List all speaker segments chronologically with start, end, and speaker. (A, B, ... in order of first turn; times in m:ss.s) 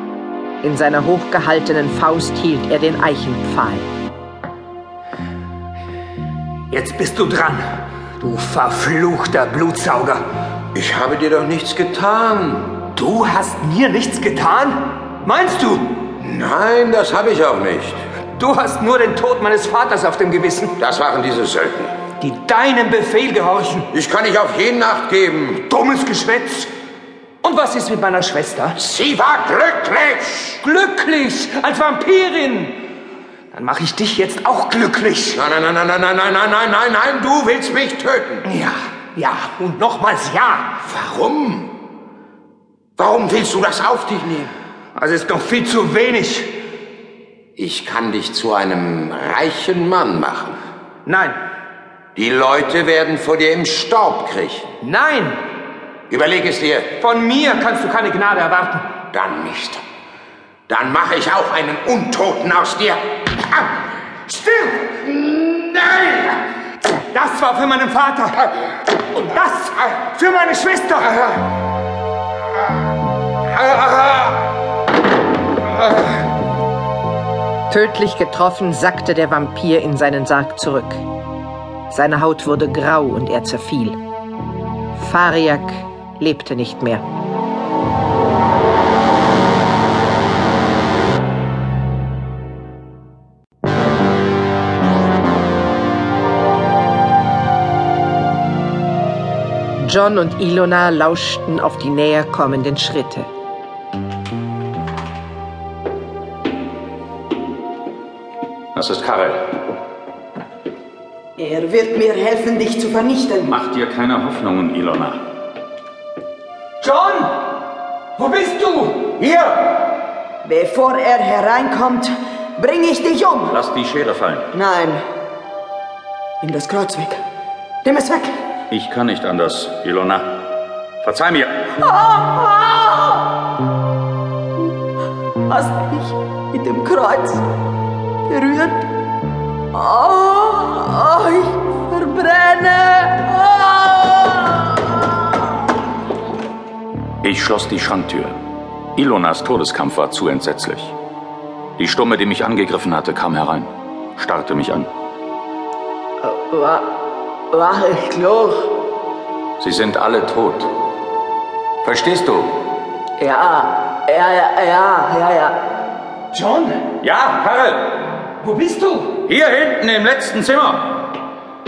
0:00.6-0:03.9 A
0:06.7-0:07.6 B
0:08.2-0:10.2 B
0:10.7-0:12.7 C
0:13.0-0:15.9 B
0:16.2-0:18.0 C
0:18.4-0:20.7 B
0:20.8-0:22.0 C
0:22.2-0:23.9 B
0:23.9-0:25.6 C
0:25.7-0:26.7 B
0:27.4-0:28.8 B
0:28.8-0:30.6 C
0:30.6-0:32.8 B
0:33.5-0:35.4 B
0:35.3-0:38.4 C
0:38.4-0:40.8 B
0:40.8-0:41.7 C
0:43.0-0:44.5 C
0:44.9-0:46.5 B
0:47.6-0:50.6 C
0:51.0-0:51.4 B
0:52.1-0:54.7 C
0:54.8-0:55.4 B
0:56.1-0:56.9 C
0:57.0-0:58.9 B
0:59.1-0:59.8 C
1:00.7-1:03.0 C
1:04.3-1:05.0 B
1:07.1-1:11.2 B
1:17.7-1:21.0 A
1:21.9-1:24.0 A
1:24.9-1:27.0 A
1:39.8-1:43.3 A
1:48.7-1:49.5 D
1:51.4-1:53.5 E
1:53.4-1:55.2 D
1:56.8-1:57.4 B
1:58.2-1:59.1 B
1:59.2-1:59.7 D
2:00.4-2:03.5 E
2:03.5-2:04.5 D
2:04.5-2:05.0 E
2:06.4-2:07.2 E
2:07.8-2:08.4 E
2:08.7-2:10.4 D
2:11.0-2:11.8 D
2:11.8-2:13.4 E
2:15.5-2:17.4 E
2:18.3-2:18.8 E
2:19.7-2:25.5 E
2:27.2-2:28.4 D
2:28.9-2:30.9 D
2:31.8-2:34.9 D
2:36.2-2:36.9 E
2:37.5-2:38.8 E
2:39.6-2:40.7 D
2:41.8-2:42.6 D
2:43.2-2:45.7 E
2:46.3-2:46.9 B
2:47.0-2:48.0 D
2:48.4-2:49.2 B
2:49.2-2:51.0 D